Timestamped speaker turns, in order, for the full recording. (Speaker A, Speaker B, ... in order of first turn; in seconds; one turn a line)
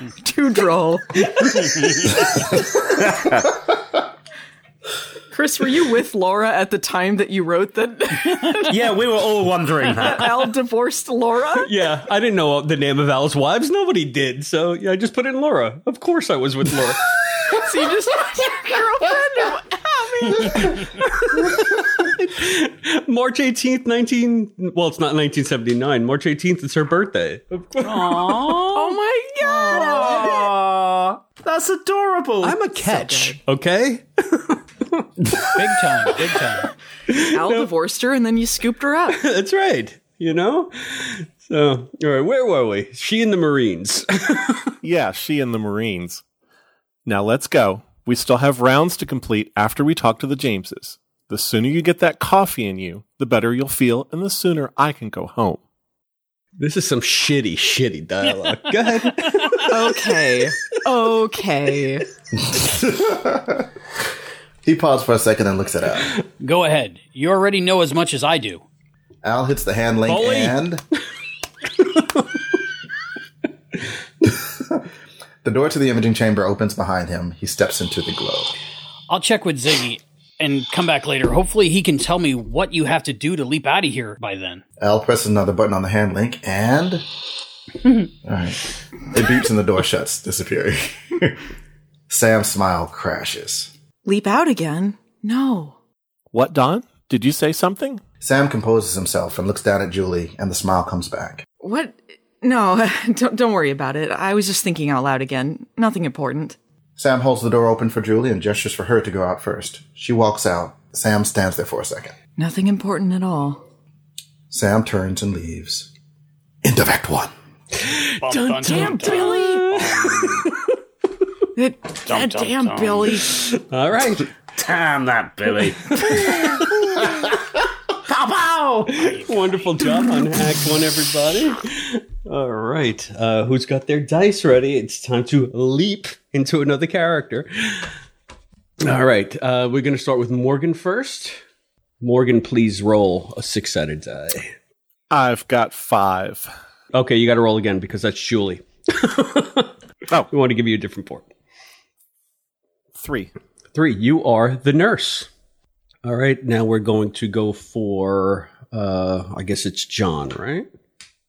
Speaker A: 0.2-1.5
Speaker B: 3.0-3.4
Speaker A: 5.3-8.9
Speaker B: 8.7-10.4
Speaker A: 9.8-11.7
Speaker C: 11.6-17.1
Speaker A: 17.5-20.8
Speaker C: 21.2-28.6
Speaker D: 27.8-29.0
Speaker A: 28.7-30.5
Speaker D: 29.6-30.3
Speaker B: 29.7-32.6
Speaker C: 32.4-35.1
Speaker A: 32.8-33.4
Speaker D: 35.5-36.7
Speaker C: 37.1-37.7
Speaker A: 37.3-39.2
Speaker C: 39.1-44.7
Speaker E: 44.8-46.2
Speaker E: 47.0-55.6
Speaker C: 56.6-60.0
Speaker D: 58.5-59.1
Speaker A: 59.7-62.0
Speaker F: 62.5-63.7
Speaker F: 64.6-66.1
Speaker D: 66.4-68.6
Speaker F: 69.2-70.8
Speaker D: 70.1-70.6
Speaker C: 71.8-72.3
Speaker F: 74.2-74.8
Speaker F: 75.4-78.5
Speaker D: 79.1-84.6
Speaker F: 84.8-87.0
Speaker F: 88.2-91.4
Speaker F: 92.1-93.7
Speaker A: 94.0-95.7
Speaker E: 96.3-98.0
Speaker F: 98.2-101.4
Speaker A: 101.6-106.6
Speaker F: 107.0-112.1
Speaker A: 112.4-113.6
Speaker F: 114.5-115.9
Speaker F: 116.6-117.3
Speaker C: 117.8-120.7
Speaker D: 118.2-120.5
Speaker A: 118.7-119.8
Speaker A: 121.5-123.4
Speaker D: 122.0-123.2
Speaker C: 123.2-124.3
Speaker B: 124.5-126.7
Speaker C: 126.1-126.6
Speaker B: 128.1-129.1
Speaker C: 128.8-137.9
Speaker C: 138.8-141.4
Speaker C: 142.0-144.5
Speaker E: 145.1-146.5
Speaker C: 146.9-149.7
Speaker C: 150.3-151.3
Speaker E: 152.9-153.3
Speaker C: 153.7-155.3
Speaker C: 156.0-160.7